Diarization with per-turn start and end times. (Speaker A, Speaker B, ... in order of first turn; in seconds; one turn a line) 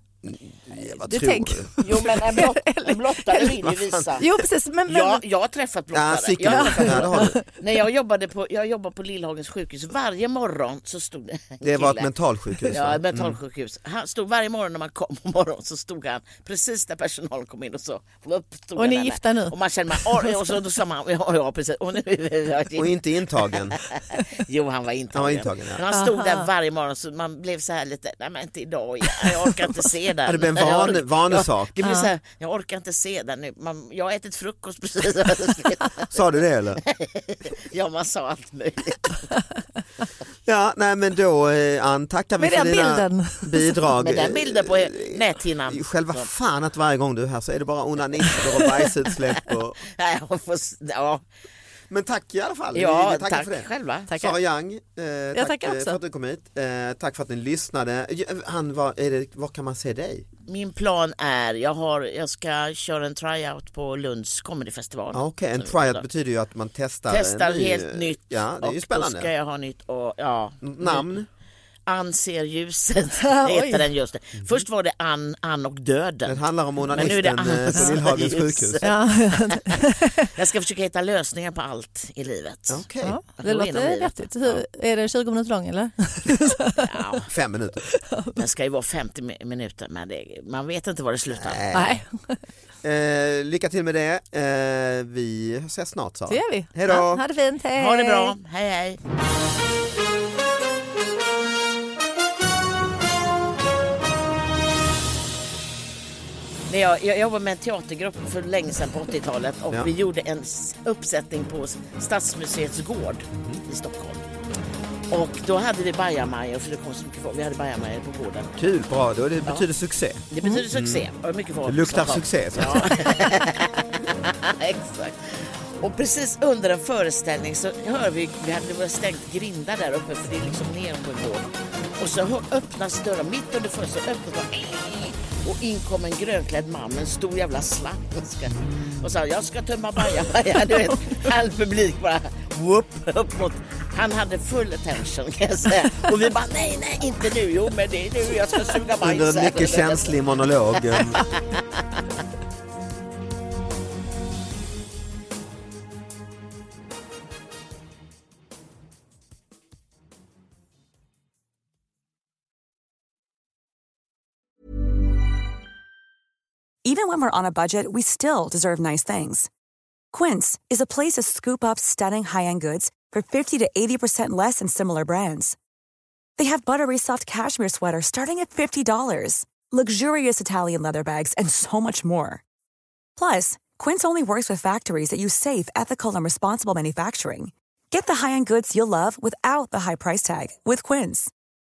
Speaker A: 0.2-1.8
Speaker B: 0.8-3.6
Speaker C: 1.8-4.2
Speaker A: 3.6-4.2
Speaker B: 4.2-5.2
Speaker C: 4.9-12.1
Speaker A: 5.9-7.4
Speaker B: 6.5-7.4
Speaker A: 11.6-13.4
Speaker C: 12.7-36.1
Speaker B: 18.8-20.6
Speaker A: 22.8-23.8
Speaker A: 25.1-25.8
Speaker B: 25.9-26.5
Speaker A: 30.3-31.8
Speaker A: 36.1-36.8
Speaker C: 36.9-39.3
Speaker A: 40.5-49.8
Speaker B: 42.4-43.8
Speaker C: 44.0-46.3
Speaker C: 49.9-51.2
Speaker A: 51.9-60.3
Speaker C: 52.7-54.1
Speaker B: 54.1-54.4
Speaker B: 55.3-56.0
Speaker C: 60.5-66.0
Speaker A: 65.1-69.3
Speaker C: 67.1-71.1
Speaker A: 70.6-71.3
Speaker C: 71.9-76.4
Speaker B: 73.2-73.9
Speaker A: 76.3-78.8
Speaker C: 76.9-79.8
Speaker B: 78.8-80.3
Speaker C: 80.3-82.8
Speaker A: 82.7-83.2
Speaker B: 83.0-86.8
Speaker C: 83.4-84.1
Speaker C: 86.8-87.3
Speaker A: 87.3-87.8
Speaker B: 87.9-88.4
Speaker C: 88.4-91.6
Speaker A: 91.3-92.0
Speaker B: 91.7-92.4
Speaker A: 92.8-97.2
Speaker B: 96.3-98.3
Speaker C: 97.8-99.0
Speaker C: 106.7-114.2
Speaker A: 113.3-113.6
Speaker C: 115.1-118.5
Speaker A: 118.6-121.0
Speaker C: 120.3-150.2
Speaker A: 121.7-122.9
Speaker A: 149.0-151.2
Speaker C: 150.8-151.6
Speaker D: 166.8-169.5
Speaker D: 170.1-175.6
Speaker D: 176.4-182.4
Speaker D: 183.2-191.3